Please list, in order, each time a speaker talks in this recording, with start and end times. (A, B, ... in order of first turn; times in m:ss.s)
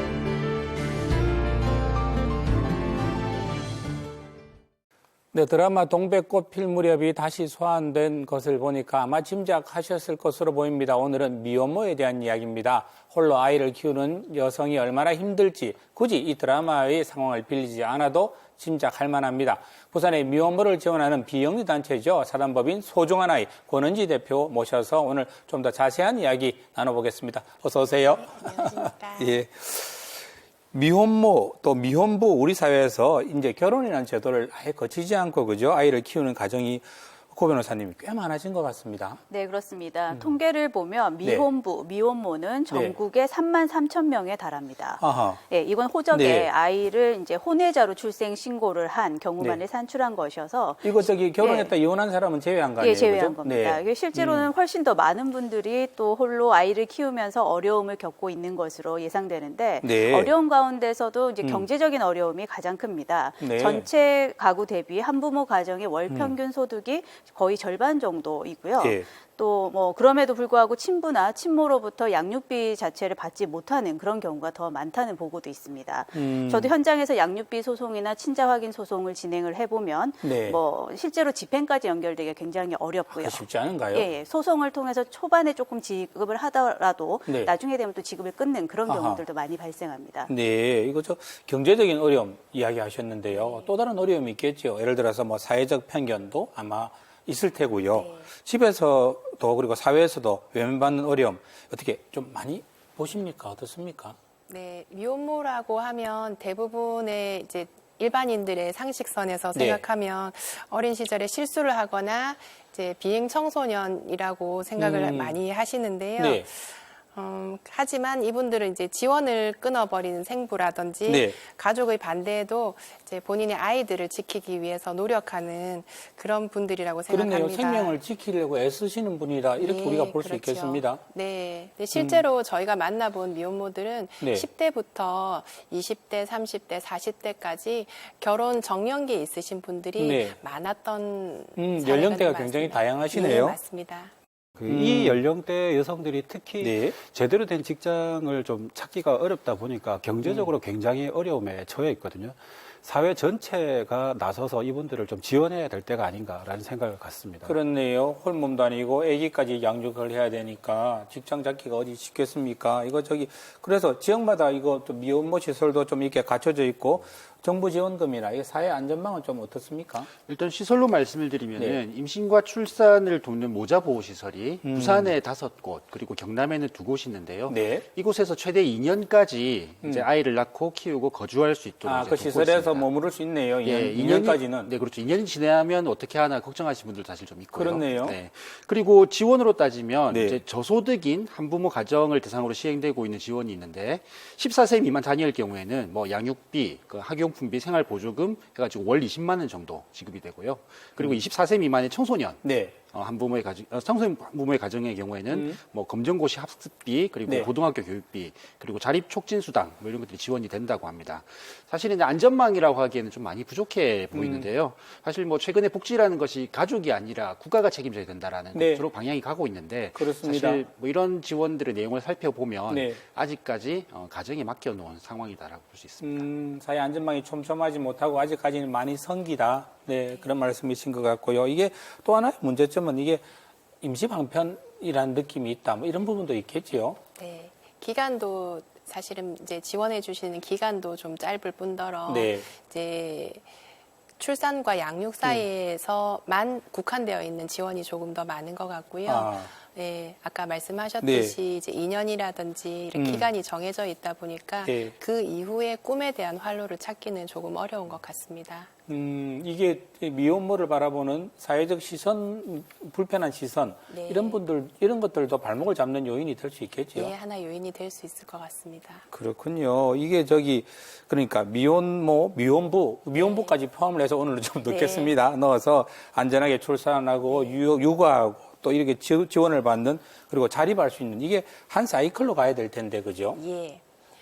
0:05.3-0:39.2 A
0:28.1-0:29.4 B
0:39.3-0:51.8 C
0:45.0-0:45.4 A
0:46.1-0:46.5 A
0:50.8-0:54.5 A
0:52.8-1:30.3 C
0:59.8-1:00.2 A
1:03.4-1:03.8 A
1:16.1-1:16.7 A
1:20.2-1:20.6 A
1:23.2-1:24.0 A
1:28.9-1:29.2 A
1:30.3-1:44.2 A
1:33.3-1:33.7 B
1:37.9-1:38.3 B
1:44.5-2:08.0 B
1:49.5-1:49.8 A
1:54.8-1:55.4 A
1:56.2-1:56.5 A
2:01.0-2:01.4 A
2:07.1-2:11.0 A
2:09.6-2:24.1 B
2:11.9-2:12.2 A
2:14.2-2:14.5 A
2:20.0-2:20.4 A
2:21.6-2:23.6 A
2:24.6-2:37.6 D
2:24.7-2:25.2 A
2:26.6-2:27.0 A
2:30.2-2:30.5 A
2:37.4-2:50.1 A
2:50.2-3:46.3 E
2:54.6-2:55.1 A
2:57.5-2:57.8 A
3:01.8-3:04.7 A
3:07.5-3:08.2 A
3:10.1-3:10.4 A
3:22.4-3:22.8 A
3:25.3-3:25.6 A
3:34.1-3:34.5 A
3:38.5-3:38.8 A
3:40.0-3:40.6 A
3:42.7-3:43.0 A
3:46.0-3:53.2 A
3:53.8-3:57.0 A
3:57.2-4:03.4 B
4:02.1-4:02.5 A
4:04.2-4:18.7 B
4:09.0-4:09.5 A
4:11.0-4:11.4 A
4:12.9-4:13.3 A
4:14.6-4:14.9 A
4:18.9-4:27.1 A
4:23.9-4:24.4 B
4:26.9-4:29.0 B
4:29.1-4:43.4 A
4:33.1-4:33.6 B
4:34.6-4:35.2 B
4:37.3-4:37.6 B
4:43.3-4:43.8 B